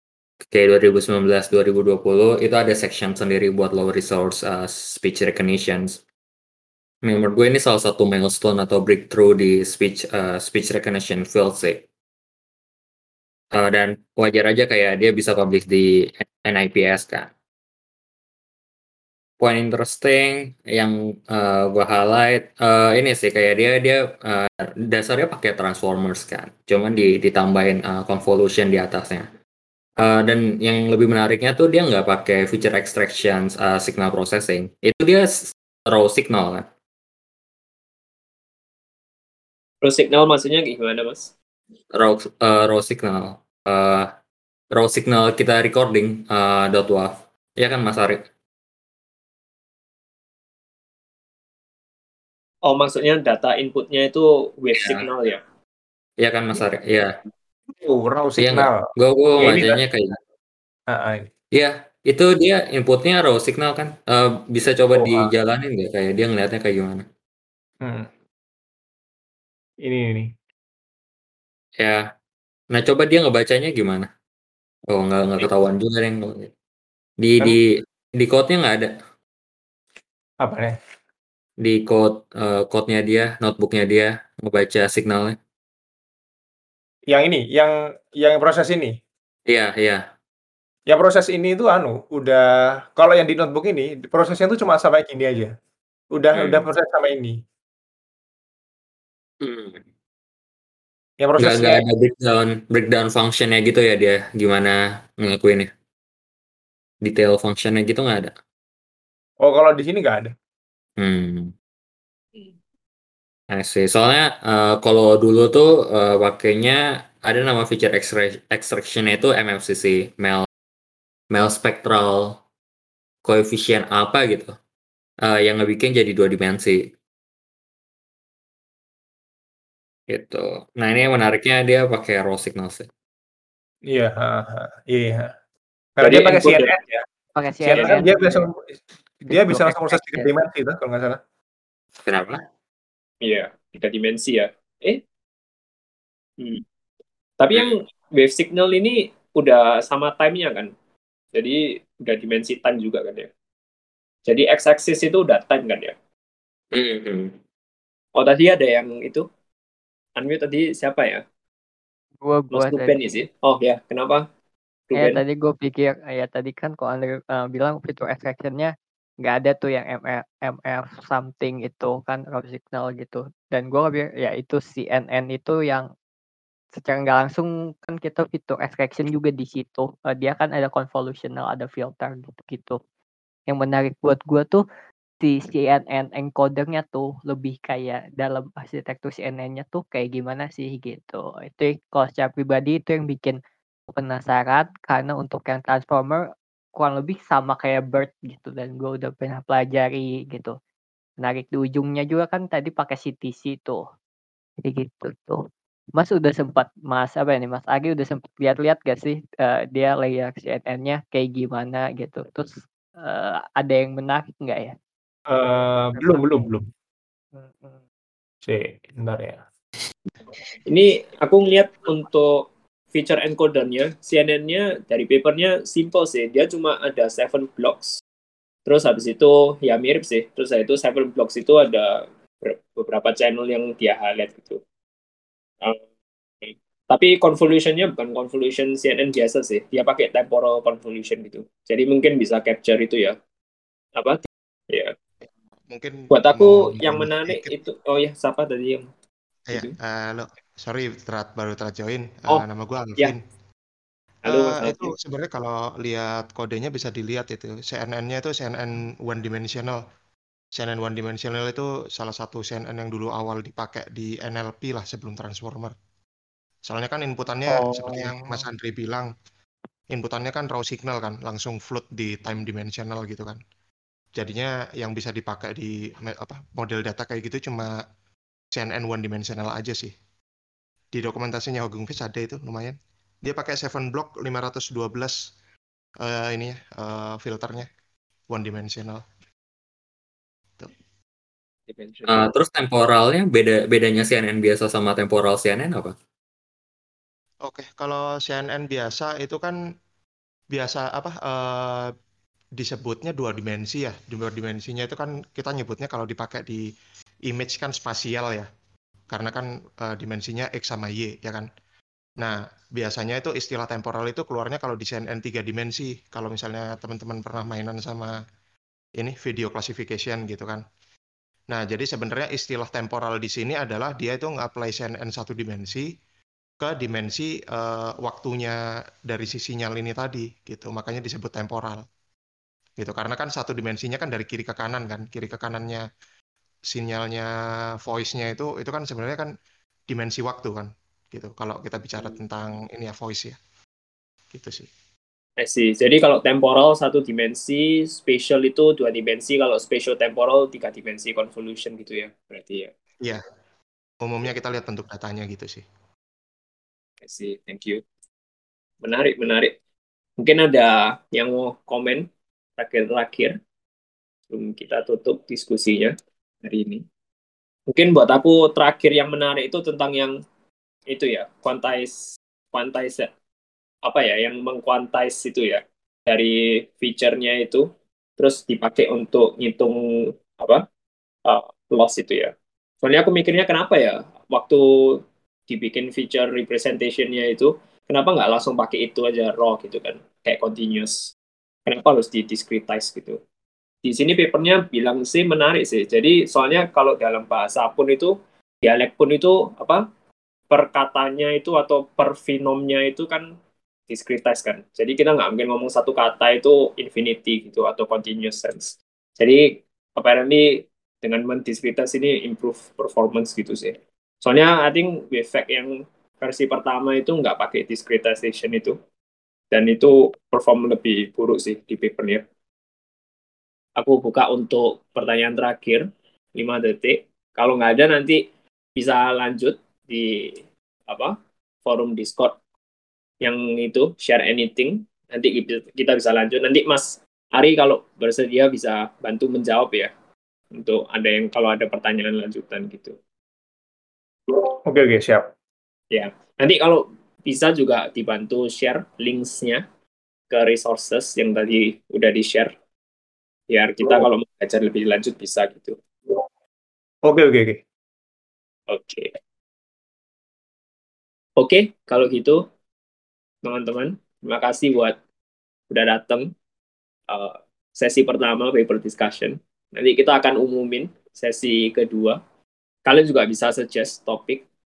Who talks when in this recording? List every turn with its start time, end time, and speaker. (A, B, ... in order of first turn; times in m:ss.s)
0:00.5-0:06.0 A
0:07.0-0:11.8 A
0:13.5-0:17.3 A
0:19.4-0:29.3 A
0:30.0-0:36.7 A
0:39.8-0:41.3 B
0:41.9-0:44.1 A
0:44.7-0:48.2 A
0:52.7-0:55.4 B
0:54.8-0:55.1 A
0:56.2-0:57.2 A
0:57.8-0:58.9 C
0:58.4-1:00.2 A
0:59.4-0:59.8 C
1:00.9-1:01.3 C
1:01.5-1:07.1 A
1:05.0-1:05.3 C
1:07.8-1:08.1 C
1:09.8-1:10.3 C
1:11.8-1:12.1 A
1:12.7-1:14.1 A
1:14.9-1:16.5 A
1:17.2-1:18.9 A
1:20.4-1:20.8 C
1:21.6-1:25.4 A
1:27.1-1:29.0 C
1:29.5-1:30.1 A
1:30.9-1:35.5 C
1:36.1-1:37.4 C
1:36.3-1:36.7 A
1:39.4-1:39.8 A
1:41.2-1:41.9 C
1:41.4-1:45.7 A
1:47.0-1:48.3 A
1:49.4-1:50.3 C
1:51.0-1:51.5 A
1:53.5-2:00.5 A
2:01.3-2:02.4 A
2:03.2-2:04.6 A
2:05.2-2:06.9 A
2:10.1-2:12.9 A
2:13.9-2:15.3 C
2:16.0-2:17.0 C
2:16.0-2:16.8 B
2:17.4-2:18.5 D
2:17.6-2:18.7 C
2:19.2-2:21.2 C
2:19.3-2:20.3 D
2:22.1-2:22.4 A
2:23.2-2:25.0 B
2:26.4-2:26.6 B
2:27.4-2:30.7 B
2:27.5-2:27.8 A
2:31.3-2:33.3 B
2:34.3-2:36.0 B
2:36.7-2:37.4 A
2:38.2-2:39.3 B
2:40.2-2:41.2 B
2:42.2-2:43.0 D
2:42.5-2:44.3 B
2:44.9-2:45.2 B
2:45.0-2:55.9 D
2:56.7-3:02.8 D
3:03.5-3:04.6 D
3:05.2-3:13.4 D
3:13.9-3:20.6 D
3:21.2-3:23.9 D
3:24.6-3:25.4 D
3:26.0-3:34.8 D
3:35.3-3:36.7 C
3:36.0-3:36.5 D
3:37.4-3:37.8 D
3:38.4-3:39.4 C
3:40.6-3:48.0 B
3:48.7-3:54.6 B
3:56.4-4:03.2 B
4:04.0-4:04.9 B
4:05.7-4:07.6 E
4:06.1-4:08.9 B
4:09.5-4:13.2 E
4:12.3-4:13.2 B
4:14.2-4:19.8 E
4:14.3-4:15.0 B
4:20.5-4:25.8 E
4:26.6-4:29.1 E
4:27.5-4:28.5 D
4:29.9-4:33.4 E
4:34.2-4:37.8 E
4:38.5-4:39.9 E
4:40.9-4:45.3 E
4:46.0-4:47.7 E
4:48.3-4:49.0 E
4:51.7-4:52.3 B
4:52.1-4:56.0 A
4:57.4-4:59.6 E
5:00.5-5:01.9 E
5:02.6-5:06.7 E
5:07.3-5:08.5 E
5:09.1-5:11.5 E
5:12.2-5:18.2 E
5:19.0-5:20.6 E
5:21.5-5:25.9 E
5:26.6-5:31.8 E
5:32.8-5:35.9 E
5:36.7-5:37.3 E
5:37.8-5:39.3 E
5:39.9-5:43.4 E
5:42.0-5:42.2 B
5:44.3-5:44.7 E
5:45.4-5:52.7 B
5:54.0-5:55.6 E
5:57.0-5:57.8 B
5:58.8-5:59.5 B
6:00.2-6:02.1 B
6:02.6-6:03.4 B
6:04.3-6:06.8 B
6:07.7-6:10.2 B
6:10.9-6:12.0 B
6:12.5-6:13.1 B
6:13.8-6:17.7 B
6:18.2-6:20.6 B
6:21.3-6:31.1 B
6:31.7-6:33.2 B
6:33.8-6:39.8 B
6:40.5-6:43.3 B
6:43.9-6:58.8 B
6:59.5-7:02.2 B
7:03.8-7:05.8 B
7:06.4-7:08.2 B
7:08.8-7:12.4 B
7:13.2-7:19.9 B
7:20.5-7:23.0 B
7:24.7-7:25.3 C
7:25.9-7:29.6 B
7:30.3-7:32.5 B
7:33.5-7:35.8 B
7:37.1-7:37.6 C
7:38.7-7:39.1 B
7:41.4-7:42.4 B
7:43.4-7:45.0 B
7:45.7-7:46.3 B
7:47.1-7:52.2 B
7:52.9-7:54.4 B